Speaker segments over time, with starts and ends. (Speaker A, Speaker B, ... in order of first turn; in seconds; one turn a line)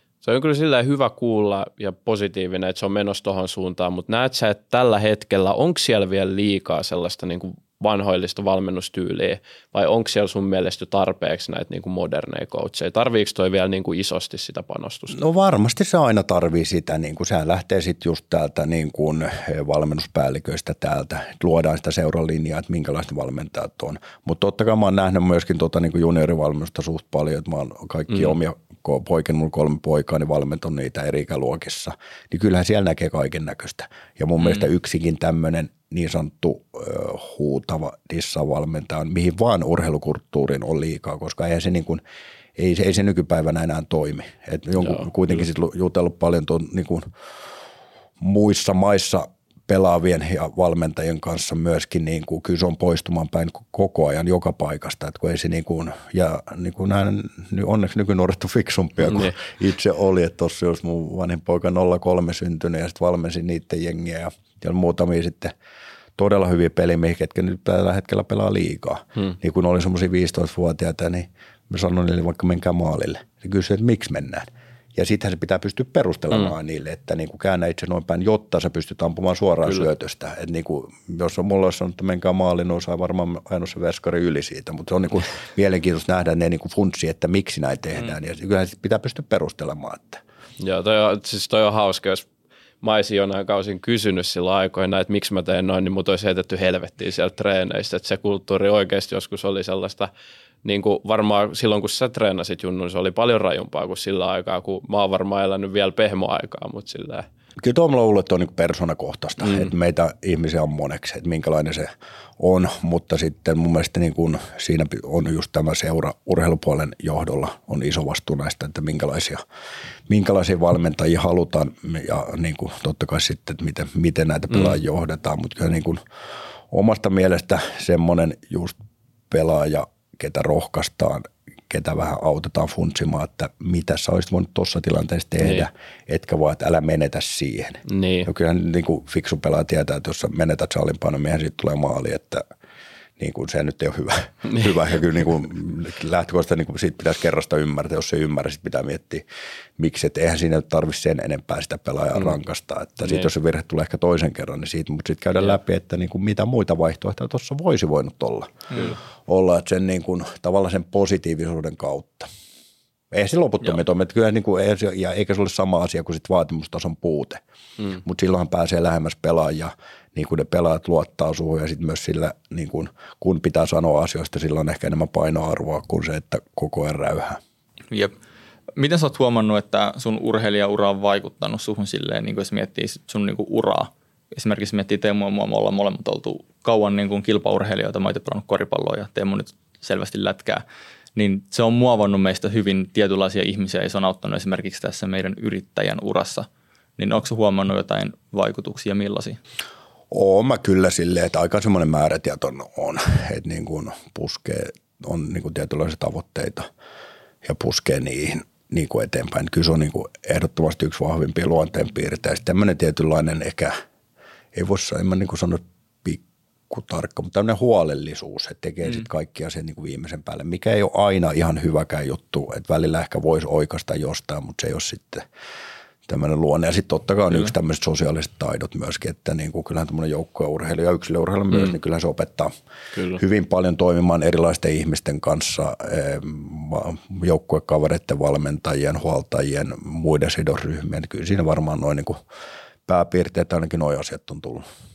Speaker A: 0.2-15.2
Speaker B: 15.1-42.0
Speaker A: 28.1-28.4
Speaker A: 34.4-34.7
Speaker B: 42.6-47.1
Speaker A: 44.8-45.1
Speaker B: 48.2-65.5
Speaker A: 59.0-59.4
Speaker B: 66.2-90.2
Speaker A: 90.6-92.3
Speaker A: 92.8-100.1
Speaker A: 100.6-107.3
Speaker B: 107.6-119.4
Speaker A: 109.4-109.7
Speaker B: 120.1-126.0
Speaker A: 124.5-124.8
Speaker B: 126.7-128.8
Speaker B: 129.3-142.4
Speaker A: 135.4-135.7
Speaker A: 137.9-138.3
Speaker B: 143.2-149.2
Speaker A: 144.4-144.8
Speaker B: 149.8-158.7
Speaker A: 153.0-153.3
Speaker B: 159.2-162.3
Speaker B: 163.1-167.4
Speaker B: 168.0-177.4
Speaker C: 178.8-190.6
Speaker C: 191.2-196.5
Speaker C: 197.0-199.4
Speaker B: 200.1-206.7
Speaker B: 207.4-213.8
Speaker B: 214.5-225.3
Speaker B: 226.1-232.5
Speaker A: 232.9-233.2
Speaker B: 233.2-242.2
Speaker B: 242.9-244.7